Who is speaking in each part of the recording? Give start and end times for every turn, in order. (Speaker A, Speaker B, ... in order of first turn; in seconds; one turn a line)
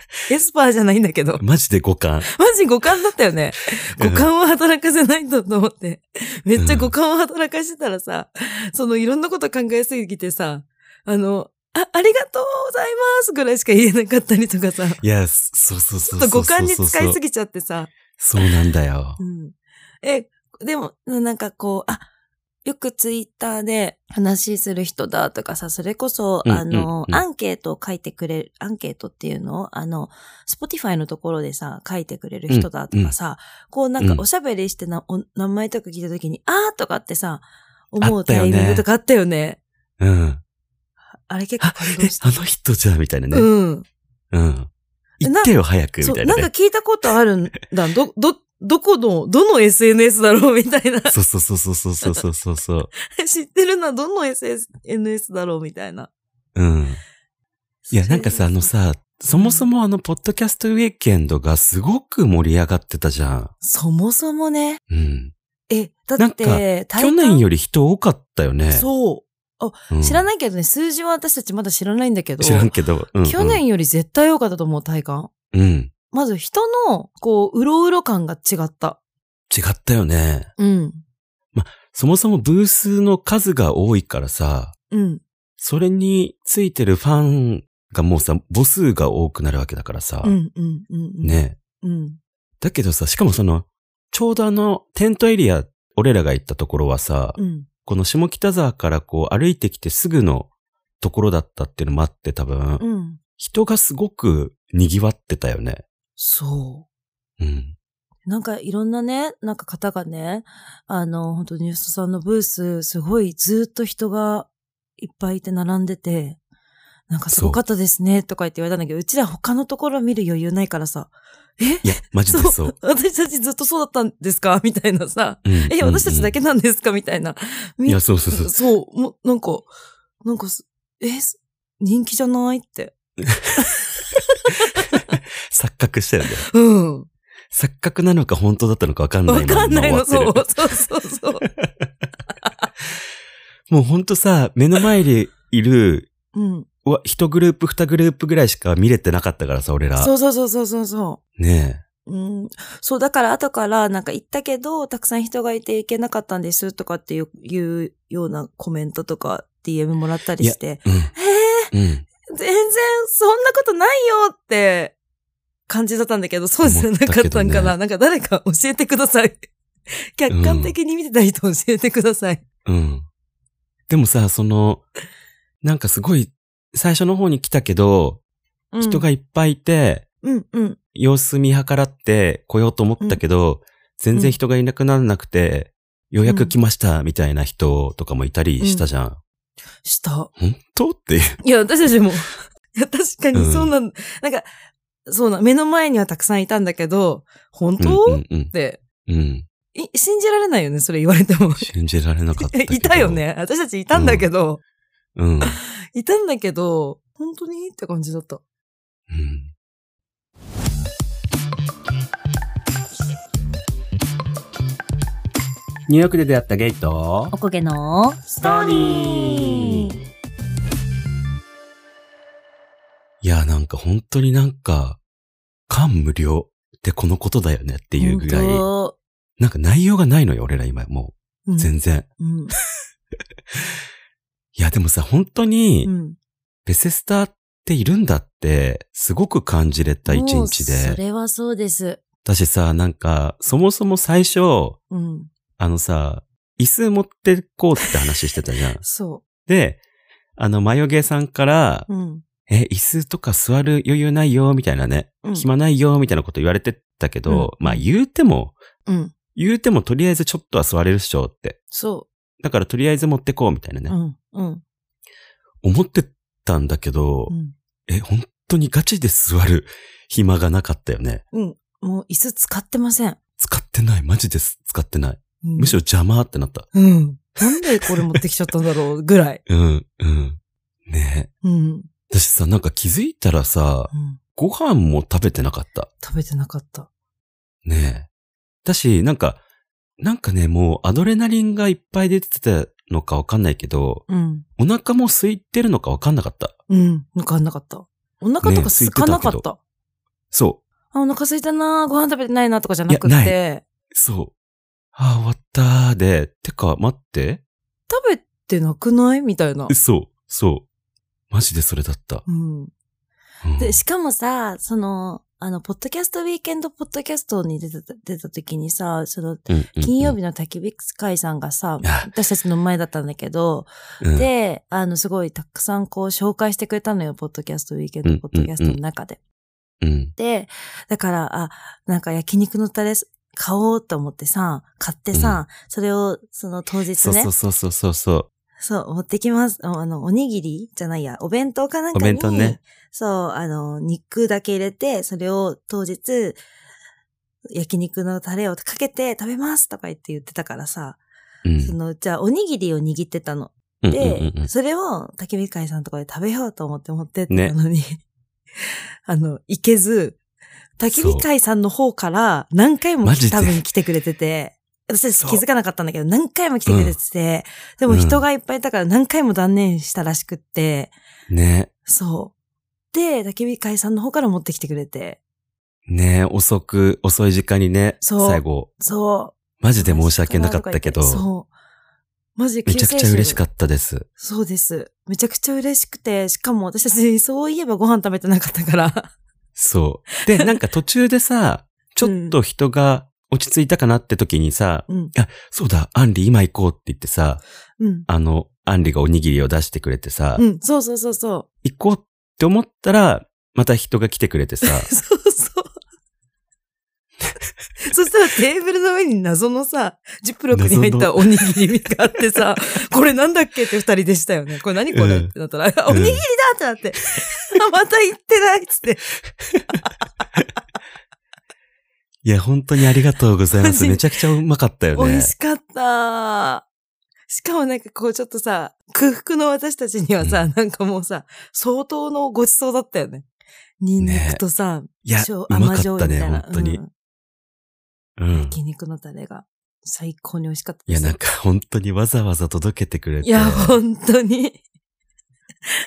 Speaker A: 0.3-1.4
Speaker B: 1.4-2.3
Speaker A: 2.3-15.0
Speaker B: 4.0-4.3
Speaker B: 6.6-6.9
Speaker B: 15.0-17.2
Speaker A: 16.0-18.4
Speaker B: 18.2-19.2
Speaker A: 19.2-22.1
Speaker A: 22.6-39.6
Speaker B: 26.4-27.2
Speaker B: 32.5-33.1
Speaker B: 34.0-34.2
Speaker B: 38.0-38.9
Speaker B: 40.0-40.4
Speaker A: 41.2-42.2
Speaker B: 41.6-43.5
Speaker A: 43.3-43.9
Speaker B: 44.3-46.5
Speaker A: 45.2-51.1
Speaker B: 51.1-52.9
Speaker A: 53.0-56.1
Speaker B: 56.5-57.0
Speaker A: 57.9-58.7
Speaker B: 57.9-63.5
Speaker A: 59.3-59.7
Speaker A: 63.6-64.8
Speaker B: 64.9-65.3
Speaker A: 65.7-67.5
Speaker B: 66.2-68.9
Speaker A: 68.7-72.7
Speaker B: 69.9-70.2
Speaker B: 72.4-73.6
Speaker A: 73.2-75.3
Speaker B: 75.5-75.9
Speaker A: 76.1-79.0
Speaker B: 79.5-80.5
Speaker A: 80.6-81.0
Speaker B: 81.5-84.7
Speaker A: 84.9-85.2
Speaker B: 85.6-90.3
Speaker A: 90.2-92.2
Speaker B: 91.2-91.6
Speaker B: 92.6-100.5
Speaker A: 97.3-97.7
Speaker B: 101.0-102.8
Speaker A: 102.8-103.2
Speaker B: 103.4-105.8
Speaker A: 106.2-106.8
Speaker B: 107.4-107.7
Speaker A: 108.2-114.5
Speaker A: 115.0-116.4
Speaker A: 117.1-129.7
Speaker B: 117.3-117.6
Speaker B: 121.8-122.7
Speaker B: 125.4-126.3
Speaker B: 127.9-128.5
Speaker A: 130.2-132.9
Speaker B: 133.2-133.6
Speaker A: 133.6-135.0
Speaker B: 135.4-136.4
Speaker A: 136.5-137.1
Speaker B: 137.5-140.4
Speaker A: 139.3-141.5
Speaker B: 141.6-141.9
Speaker B: 143.7-146.1
Speaker A: 146.3-146.7
Speaker B: 146.8-150.1
Speaker A: 150.0-151.2
Speaker B: 151.4-151.8
Speaker A: 152.1-161.7
Speaker B: 160.4-161.1
Speaker B: 161.7-162.0
Speaker A: 162.3-164.9
Speaker A: 165.7-169.4
Speaker B: 166.6-167.8
Speaker A: 170.1-172.4
Speaker B: 170.3-170.8
Speaker B: 172.6-173.1
Speaker B: 173.9-174.8
Speaker B: 175.6-178.2
Speaker A: 178.7-179.1
Speaker B: 178.8-180.1
Speaker A: 180.2-180.8
Speaker B: 180.9-189.2
Speaker A: 186.2-186.5
Speaker A: 188.6-188.8
Speaker A: 189.8-190.3
Speaker B: 190.4-191.4
Speaker A: 191.4-194.5
Speaker B: 193.3-193.7
Speaker A: 195.1-198.8
Speaker B: 197.8-198.5
Speaker B: 199.1-199.4
Speaker A: 199.7-201.7
Speaker B: 201.6-203.2
Speaker A: 202.4-204.6
Speaker B: 203.9-204.2
Speaker B: 205.2-205.6
Speaker A: 205.4-208.4
Speaker B: 209.1-209.5
Speaker B: 215.9-217.3
Speaker A: 217.3-219.9
Speaker B: 218.4-219.9
Speaker B: 223.2-225.0
Speaker B: 225.7-228.7
Speaker A: 228.0-228.9
Speaker B: 229.4-232.1
Speaker A: 231.4-232.5
Speaker B: 234.5-235.9
Speaker A: 235.8-236.2
Speaker B: 236.6-241.0
Speaker A: 240.1-242.0
Speaker B: 242.2-244.8
Speaker A: 244.9-245.3
Speaker B: 245.6-248.8
Speaker A: 248.8-249.2
Speaker B: 249.5-249.8
Speaker B: 250.4-251.9
Speaker A: 251.9-252.2
Speaker B: 252.5-258.6
Speaker A: 257.2-257.9
Speaker A: 258.9-259.1
Speaker B: 259.3-261.6
Speaker A: 261.7-262.1
Speaker B: 262.4-263.9
Speaker A: 263.9-264.6
Speaker B: 265.6-267.3
Speaker A: 267.3-267.5
Speaker B: 267.9-271.2
Speaker A: 271.3-273.2
Speaker B: 273.4-276.7
Speaker A: 275.4-275.8
Speaker A: 276.7-279.4
Speaker B: 277.8-278.2
Speaker B: 279.5-281.3
Speaker A: 281.4-281.9
Speaker B: 282.1-285.9
Speaker A: 283.9-284.2
Speaker A: 286.0-286.9
Speaker B: 287.6-288.1
Speaker B: 288.6-289.4
Speaker B: 290.0-294.0
Speaker A: 294.1-294.4
Speaker B: 294.6-296.5
Speaker A: 296.7-299.6
Speaker B: 298.4-299.4
Speaker B: 300.3-300.6
Speaker A: 300.9-303.6
Speaker B: 302.9-303.4
Speaker B: 303.9-304.3
Speaker B: 304.9-307.4
Speaker A: 307.9-309.7
Speaker B: 309.7-310.6
Speaker B: 311.3-312.2
Speaker A: 312.2-312.7
Speaker B: 313.4-313.8
Speaker A: 313.6-329.2
Speaker B: 319.5-320.1
Speaker B: 321.8-322.1
Speaker B: 324.0-324.3
Speaker B: 328.0-328.8
Speaker B: 329.8-330.1
Speaker A: 330.1-337.3
Speaker B: 335.1-335.4
Speaker B: 337.0-338.3
Speaker A: 338.6-346.4
Speaker B: 341.9-342.6
Speaker A: 347.5-351.0
Speaker B: 351.4-351.7
Speaker A: 351.6-358.0
Speaker B: 353.8-354.5
Speaker A: 359.1-360.2
Speaker A: 360.8-370.9
Speaker B: 360.9-361.2
Speaker B: 363.0-363.6
Speaker B: 366.6-367.0
Speaker B: 367.9-368.2
Speaker B: 371.3-371.7
Speaker A: 371.9-372.3
Speaker A: 372.9-375.2
Speaker B: 375.9-378.7
Speaker A: 378.0-381.5
Speaker B: 379.6-381.2
Speaker A: 382.4-383.4
Speaker B: 382.6-384.1
Speaker A: 384.2-389.1
Speaker B: 389.6-397.4
Speaker A: 390.2-390.5
Speaker A: 392.0-392.4
Speaker A: 394.9-395.1
Speaker A: 397.8-398.1
Speaker B: 398.1-400.4
Speaker A: 400.4-401.4
Speaker B: 401.6-404.9
Speaker A: 404.6-405.7
Speaker A: 407.8-419.1
Speaker B: 410.5-411.4
Speaker B: 414.9-415.3
Speaker B: 415.9-416.2
Speaker B: 422.2-425.3
Speaker A: 423.6-424.0
Speaker A: 424.9-426.6
Speaker A: 427.3-433.2
Speaker A: 433.8-436.9
Speaker B: 434.0-434.4
Speaker B: 435.0-436.8
Speaker B: 438.2-438.6
Speaker A: 438.3-441.2
Speaker B: 440.9-443.8
Speaker A: 443.2-444.6